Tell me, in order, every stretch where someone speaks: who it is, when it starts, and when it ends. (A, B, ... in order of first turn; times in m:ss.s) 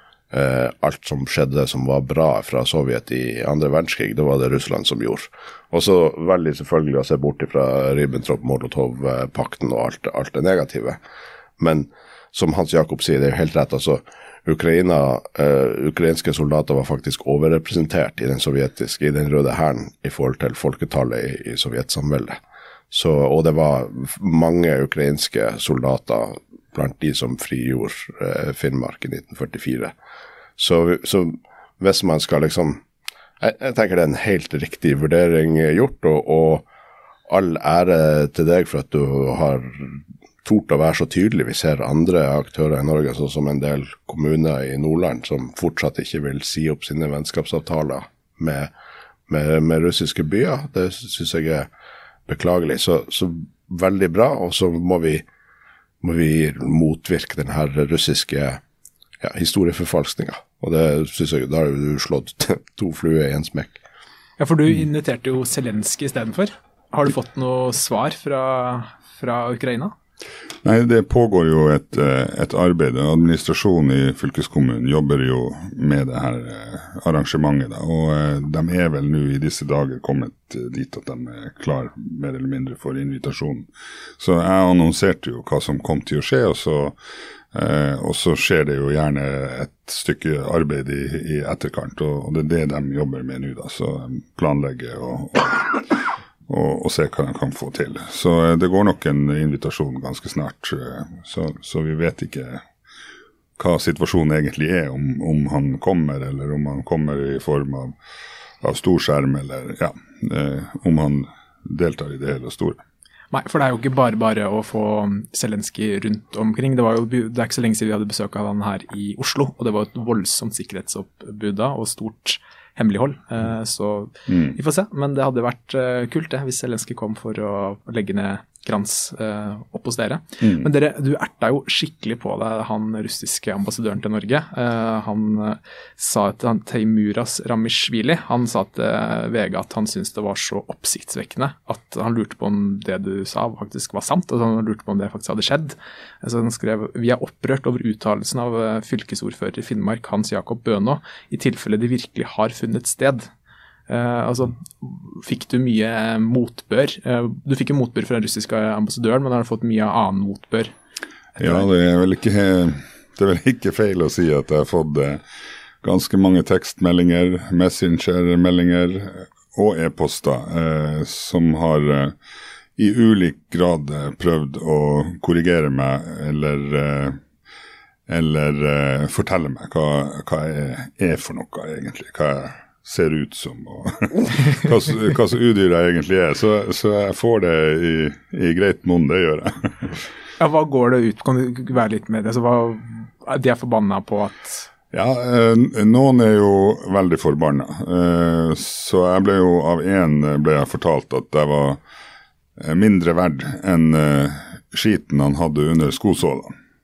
0:00.3-0:11.0 A
0:11.6-0:22.4 A
0:22.9-0:29.9 A
0:30.6-0:32.8 A
0:33.4-0:36.6 A
0:37.3-0:48.7 A
0:49.3-0:51.7 A
0:52.3-0:55.2 A
0:56.0-0:58.6 A
0:59.2-1:03.8 A
1:04.4-1:09.9 B
1:10.6-1:27.0 C
1:27.5-1:42.6 C
1:43.6-1:47.9 C
1:48.6-1:52.8 C
1:53.3-2:33.3 B
2:04.3-2:04.6 C
2:10.4-2:10.7 C
2:33.9-2:40.7 B
2:41.4-2:41.6 B
2:41.4-2:45.2 C
2:45.8-2:52.2 C
2:52.8-2:57.2 C
2:58.1-3:10.0 C
3:10.4-3:14.7 B
3:14.9-3:21.8 C
3:22.6-3:26.5 C